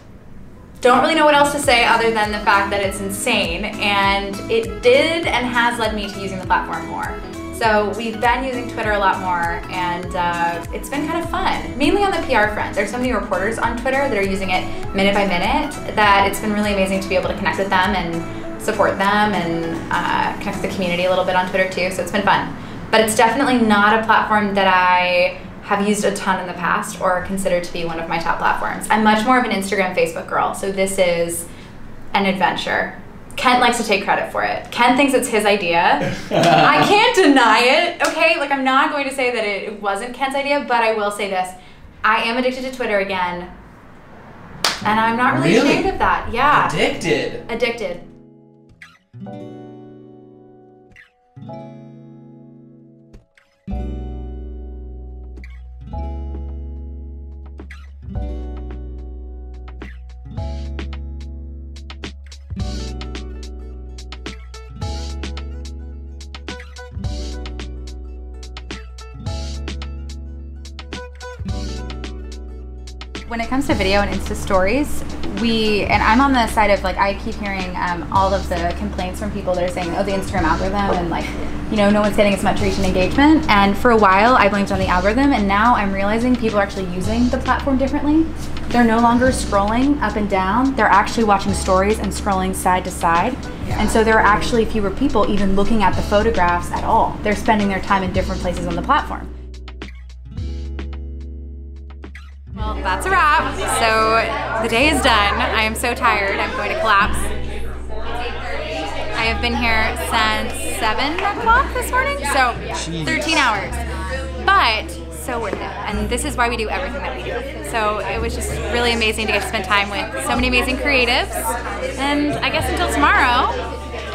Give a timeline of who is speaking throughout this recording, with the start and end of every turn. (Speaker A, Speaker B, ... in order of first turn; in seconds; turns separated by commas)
Speaker A: 0.8-31.5, Speaker A: 32.1-43.5, Speaker B: 36.3-36.9, Speaker A: 44.8-46.8, Speaker B: 45.3-45.9, Speaker B: 46.5-47.4, Speaker A: 47.5-48.0, Speaker A: 73.3-99.3, Speaker A: 102.5-107.3, Speaker A: 109.2-123.6, Speaker B: 112.7-113.5